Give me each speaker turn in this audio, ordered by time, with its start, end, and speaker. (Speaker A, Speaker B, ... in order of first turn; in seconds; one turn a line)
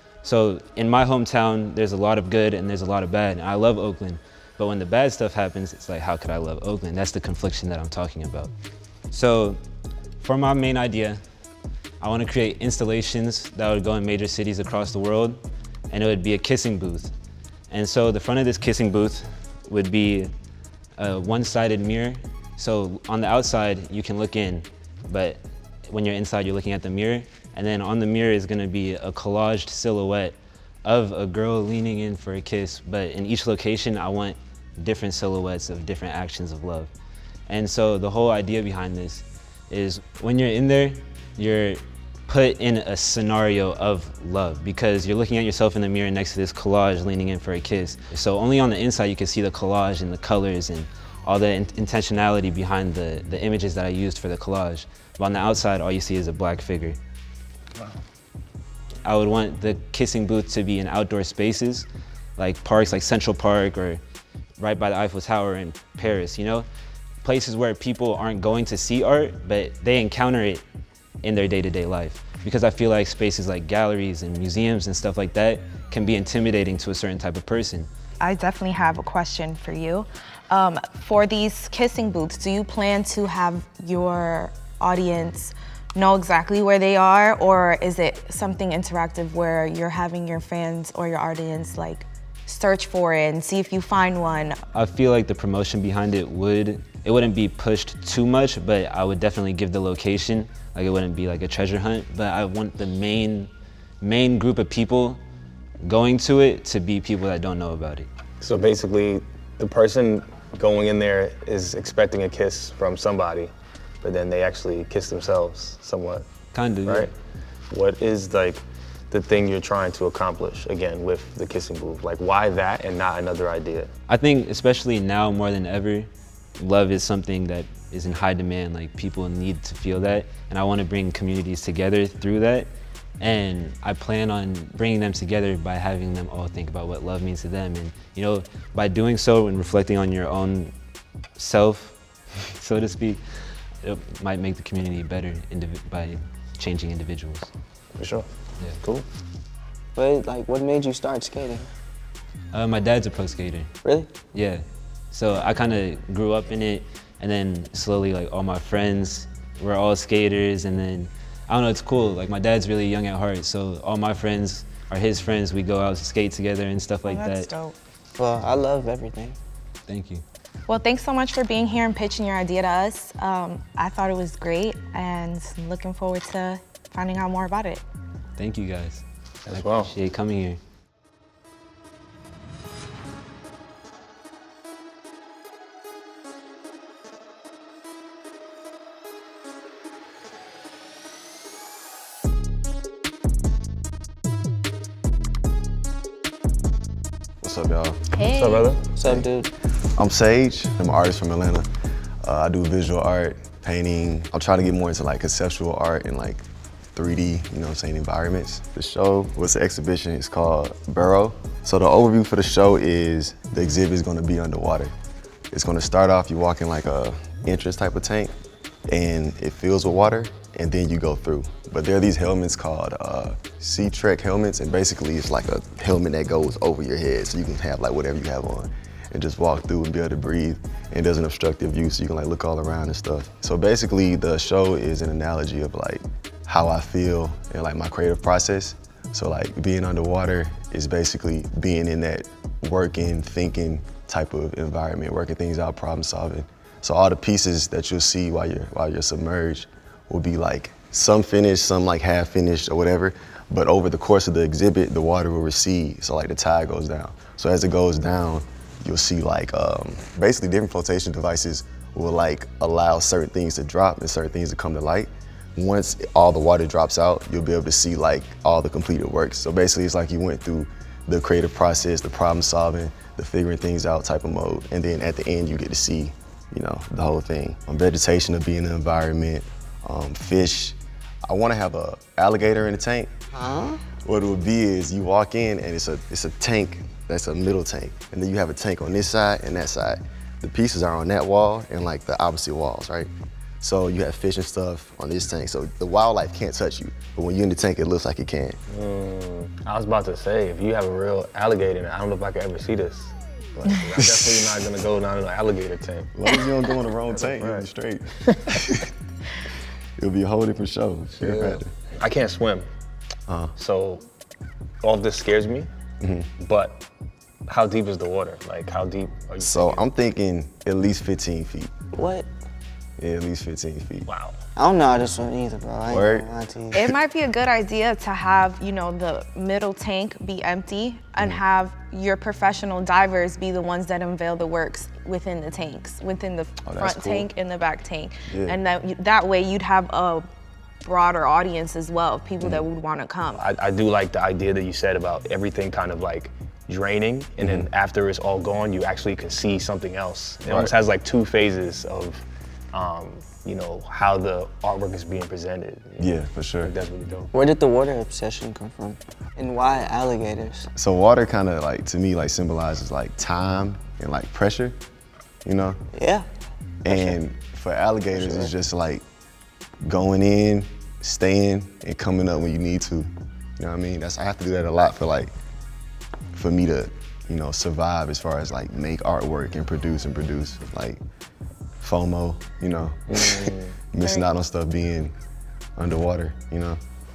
Speaker A: 0.2-8.5
Speaker A: 9.1-9.6
Speaker A: 10.2-11.2
Speaker A: 12.0-17.1
Speaker A: 17.7-20.3
Speaker A: 21.0-36.9
Speaker A: 37.5-57.0
Speaker A: 59.0-64.0
Speaker A: 64.6-66.7
Speaker A: 67.2-70.6
Speaker A: 71.2-77.9
Speaker B: 78.2-94.6
Speaker A: 94.7-105.2
Speaker A: 105.8-108.1
Speaker C: 108.4-116.2
Speaker A: 116.5-117.1
Speaker C: 116.8-117.1
Speaker C: 117.7-123.9
Speaker A: 124.1-140.7
Speaker A: 141.4-141.9
Speaker A: 142.5-143.2
Speaker A: 143.8-147.5
Speaker C: 148.0-148.3
Speaker D: 149.9-151.7
Speaker A: 152.5-153.7
Speaker D: 153.8-154.1
Speaker A: 154.3-167.5
Speaker B: 167.1-167.7
Speaker D: 167.6-169.4
Speaker A: 169.9-170.2
Speaker B: 170.7-177.8
Speaker A: 178.4-180.6
Speaker C: 179.4-179.9
Speaker E: 197.4-198.0
Speaker B: 198.1-198.6
Speaker C: 198.3-198.8
Speaker D: 198.9-199.5
Speaker E: 199.0-199.3
Speaker E: 199.9-201.7
Speaker E: 202.2-214.9
Speaker E: 215.5-218.3
Speaker E: 218.9-283.1
Speaker D: 283.3-283.8
Speaker E: 284.0-298.6
Speaker C: 298.7-306.1
Speaker E: 306.1-308.9
Speaker C: 307.1-307.7
Speaker E: 310.0-311.7
Speaker C: 311.2-312.7
Speaker E: 313.3-313.5
Speaker C: 313.6-314.1
Speaker C: 314.8-315.7
Speaker E: 316.0-316.3
Speaker C: 316.4-316.8
Speaker C: 317.5-319.8
Speaker E: 319.4-321.7
Speaker D: 321.9-322.3
Speaker E: 323.0-324.1
Speaker C: 324.1-324.4
Speaker D: 324.6-326.8
Speaker E: 325.9-326.3
Speaker B: 326.7-340.3
Speaker E: 336.6-337.3
Speaker E: 338.3-338.6
Speaker B: 340.8-343.4
Speaker C: 343.3-356.1
Speaker E: 347.4-347.7
Speaker E: 350.5-350.7
Speaker E: 356.0-356.7
Speaker C: 356.6-357.3
Speaker D: 357.3-360.7
Speaker E: 360.8-364.8
Speaker E: 365.4-365.8
Speaker D: 365.9-366.2
Speaker E: 366.8-369.0
Speaker D: 366.9-367.1
Speaker D: 368.1-368.5
Speaker E: 369.8-375.3
Speaker E: 376.3-381.0
Speaker E: 381.8-385.1
Speaker C: 383.1-383.8
Speaker E: 385.8-386.8